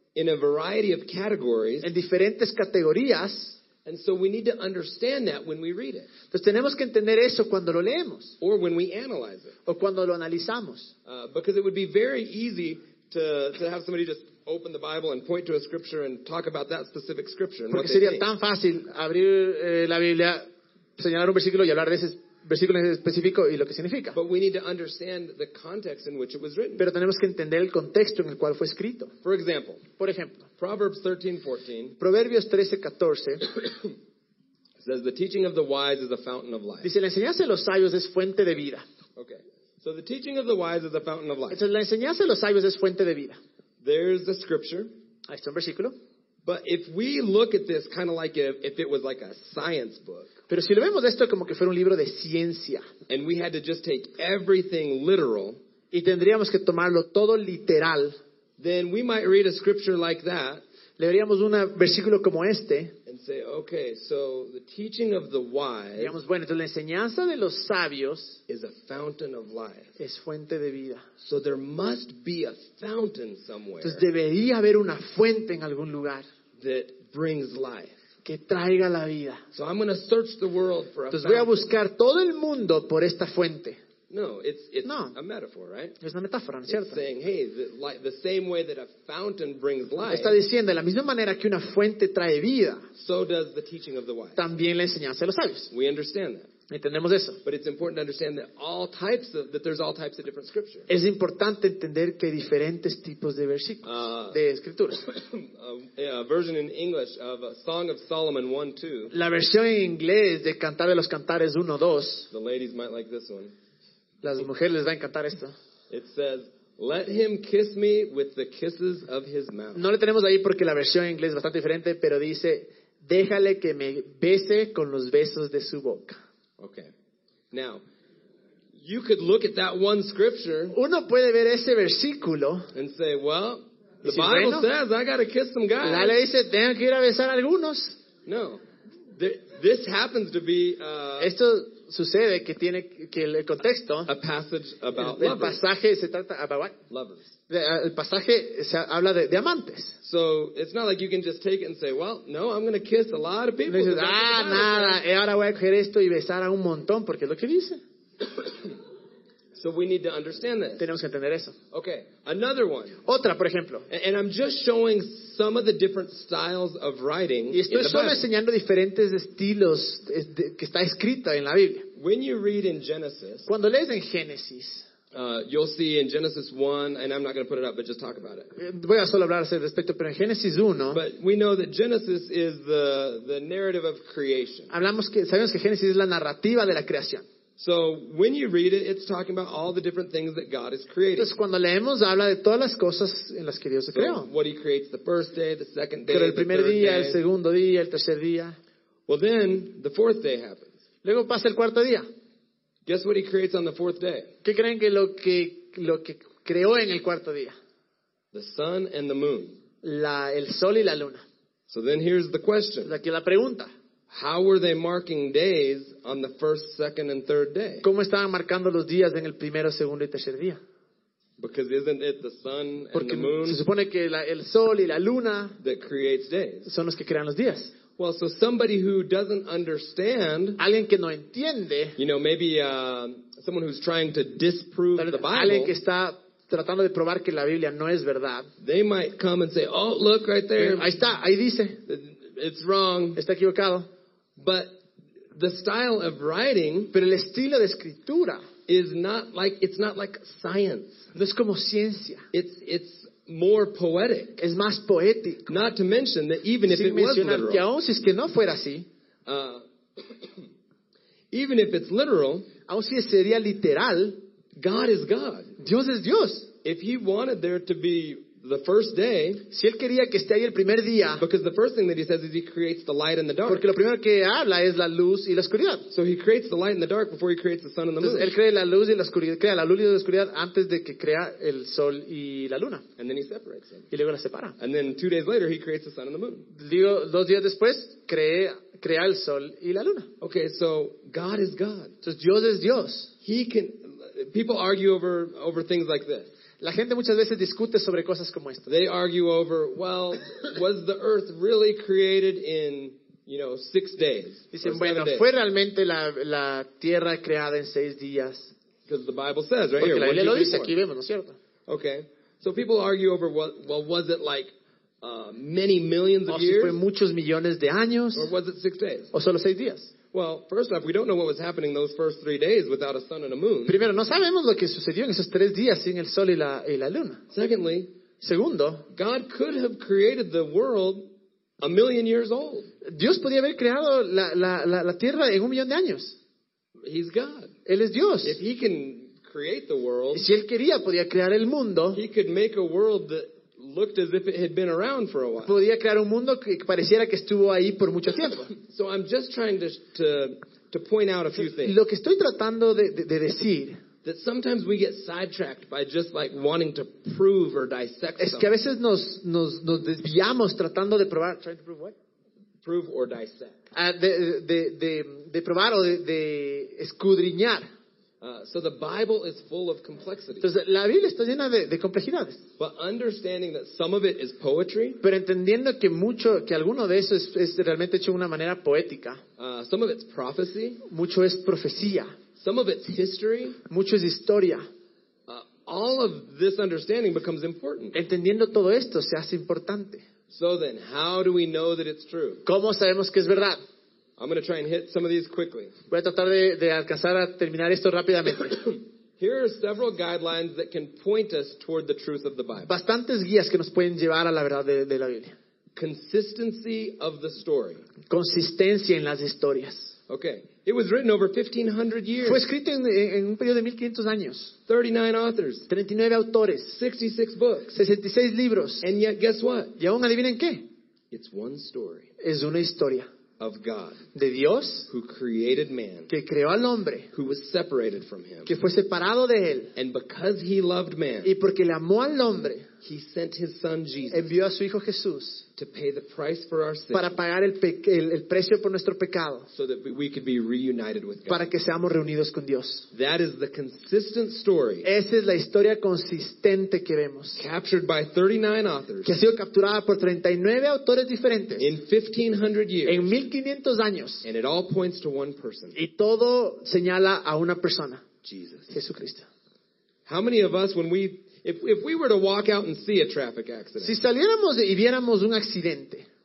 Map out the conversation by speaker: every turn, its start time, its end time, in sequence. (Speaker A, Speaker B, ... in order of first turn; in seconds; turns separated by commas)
Speaker A: 0.1-1.9, Speaker B: 1.8-3.6, Speaker A: 3.8-6.1, Speaker B: 6.3-8.3, Speaker A: 8.4-9.5, Speaker B: 9.7-10.9, Speaker A: 11.1-18.2, Speaker B: 17.7-20.4, Speaker B: 21.0-24.2, Speaker A: 24.1-26.8, Speaker B: 26.8-29.1, Speaker A: 29.2-29.8, Speaker B: 30.0-30.4, Speaker A: 30.6-31.9, Speaker B: 32.0-33.5, Speaker A: 34.8-36.9, Speaker B: 36.8-38.8, Speaker A: 39.1-41.6, Speaker B: 41.5-43.4, Speaker A: 43.8-44.9, Speaker B: 45.3-45.9, Speaker A: 46.4-50.3, Speaker B: 50.5-52.9, Speaker A: 53.1-55.6, Speaker B: 55.9-58.1, Speaker A: 58.6-60.6, Speaker B: 61.0-62.9, Speaker A: 63.0-66.2, Speaker B: 66.0-68.4, Speaker A: 68.5-69.9, Speaker B: 70.0-71.0, Speaker A: 71.2-74.0, Speaker B: 73.8-76.2, Speaker A: 76.6-78.0, Speaker B: 78.2-79.4, Speaker A: 79.5-81.6, Speaker B: 81.1-83.8, Speaker A: 84.1-86.0, Speaker B: 84.8-85.1, Speaker B: 86.0-87.0, Speaker A: 86.7-90.4, Speaker B: 90.1-92.8, Speaker A: 93.0-94.4, Speaker B: 94.3-95.7, Speaker A: 95.7-96.5, Speaker B: 96.7-97.4, Speaker A: 97.4-100.9, Speaker B: 100.9-105.0, Speaker A: 103.8-104.4, Speaker A: 105.0-109.1, Speaker B: 109.1-112.3, Speaker A: 112.3-113.5, Speaker B: 114.2-115.5, Speaker A: 115.9-119.8, Speaker B: 119.7-126.2, Speaker A: 126.6-126.9, Speaker A: 127.5-127.8, Speaker A: 128.8-130.8, Speaker B: 130.7-132.7, Speaker A: 132.7-136.2, Speaker B: 134.0-134.7, Speaker B: 135.8-138.0, Speaker A: 138.2-138.6, Speaker A: 139.2-141.3, Speaker B: 141.2-144.1, Speaker A: 144.1-145.6, Speaker B: 145.0-146.8, Speaker A: 146.9-147.3, Speaker B: 147.5-150.0, Speaker A: 150.0-155.0, Speaker B: 153.7-157.8, Speaker A: 158.2-158.8, Speaker A: 159.5-160.9, Speaker B: 160.8-161.6, Speaker A: 161.7-163.0, Speaker B: 163.0-163.9, Speaker A: 163.9-168.2, Speaker B: 167.5-171.9, Speaker A: 171.9-173.5, Speaker B: 173.5-174.8, Speaker A: 175.1-178.5, Speaker B: 178.6-181.0, Speaker A: 180.9-184.7, Speaker B: 184.7-187.2, Speaker A: 187.6-191.3, Speaker B: 191.2-194.3, Speaker A: 193.9-197.2, Speaker B: 196.1-198.6, Speaker A: 199.1-200.7, Speaker B: 201.0-202.1, Speaker A: 202.8-204.3, Speaker B: 204.4-207.5, Speaker A: 208.3-209.6, Speaker B: 209.8-211.2, Speaker A: 211.7-212.9, Speaker B: 212.8-213.7, Speaker A: 214.1-217.8, Speaker B: 217.8-220.6, Speaker A: 221.4-223.6, Speaker B: 222.9-225.6, Speaker A: 225.6-226.7, Speaker B: 226.7-227.7, Speaker A: 228.0-230.6, Speaker B: 230.6-232.0, Speaker A: 232.0-235.7, Speaker B: 234.9-238.5, Speaker A: 238.6-240.9, Speaker B: 240.6-241.8, Speaker A: 241.9-243.2, Speaker B: 243.2-243.9, Speaker A: 244.4-244.8, Speaker A: 245.3-246.9, Speaker B: 246.9-248.4, Speaker A: 248.7-251.1, Speaker B: 251.1-252.2, Speaker A: 252.3-254.4, Speaker B: 254.4-255.5, Speaker A: 255.5-257.6, Speaker B: 256.7-258.9, Speaker A: 259.2-260.4, Speaker A: 261.3-262.5, Speaker B: 262.7-264.1, Speaker A: 264.6-265.5, Speaker B: 265.6-266.5, Speaker A: 266.6-269.4, Speaker B: 269.5-271.2, Speaker A: 271.2-273.6, Speaker B: 273.5-275.9, Speaker A: 275.9-278.3, Speaker B: 278.0-282.8, Speaker A: 283.0-283.9, Speaker B: 283.9-284.6, Speaker A: 284.6-286.5, Speaker B: 286.5-290.1, Speaker A: 290.2-291.9, Speaker B: 292.0-293.1, Speaker A: 293.2-296.3, Speaker B: 296.6-298.7, Speaker A: 298.6-305.2, Speaker B: 304.5-308.5, Speaker A: 308.9-310.7, Speaker B: 309.8-311.4, Speaker A: 311.7-316.8, Speaker B: 316.3-318.3, Speaker A: 318.1-319.1, Speaker B: 319.1-319.9, Speaker A: 320.1-323.8, Speaker B: 323.6-327.2, Speaker A: 327.3-327.9, Speaker B: 328.2-328.9, Speaker A: 328.9-331.1, Speaker A: 331.6-332.7, Speaker B: 332.8-336.2, Speaker A: 336.8-337.5, Speaker B: 337.6-338.4, Speaker A: 338.2-340.3, Speaker B: 340.1-342.0, Speaker A: 341.9-345.5, Speaker B: 345.4-348.5, Speaker A: 348.5-351.8, Speaker B: 351.4-353.8, Speaker A: 354.0-358.6, Speaker B: 358.2-361.9, Speaker A: 362.6-363.6, Speaker B: 363.7-367.6, Speaker A: 368.2-370.5, Speaker B: 370.4-372.4, Speaker A: 372.6-375.0, Speaker B: 375.0-379.2, Speaker A: 379.4-380.8, Speaker B: 380.9-382.1, Speaker A: 382.4-383.6, Speaker B: 383.7-384.6, Speaker A: 385.3-388.0, Speaker B: 387.9-390.0, Speaker A: 390.3-392.4, Speaker B: 392.4-393.6, Speaker A: 394.2-395.7, Speaker B: 395.9-398.7, Speaker A: 399.2-402.7, Speaker B: 402.6-405.3, Speaker A: 405.8-407.8, Speaker B: 408.1-409.9, Speaker A: 410.1-412.4, Speaker B: 412.2-414.5, Speaker A: 414.7-415.7, Speaker B: 415.7-416.8, Speaker A: 416.7-417.7, Speaker B: 417.7-418.8, Speaker A: 418.8-419.8, Speaker B: 419.8-420.6, Speaker A: 421.1-422.1, Speaker B: 422.2-423.1, Speaker A: 423.4-424.0, Speaker B: 424.1-424.9, Speaker A: 424.9-426.1, Speaker B: 426.1-427.1, Speaker A: 427.1-428.5, Speaker B: 428.4-429.7, Speaker A: 429.8-431.3, Speaker B: 431.2-432.7, Speaker A: 432.8-434.3, Speaker B: 434.1-435.4, Speaker A: 435.6-437.2, Speaker B: 436.9-439.5, Speaker A: 439.5-441.5, Speaker B: 441.3-442.9, Speaker A: 442.9-444.9, Speaker B: 444.8-447.4, Speaker A: 447.4-449.1, Speaker B: 449.0-451.7, Speaker A: 451.6-453.1, Speaker B: 452.9-454.2, Speaker A: 454.2-455.8, Speaker B: 455.8-458.0, Speaker A: 458.2-458.7, Speaker B: 458.7-459.2, Speaker A: 460.1-464.0, Speaker B: 463.8-466.1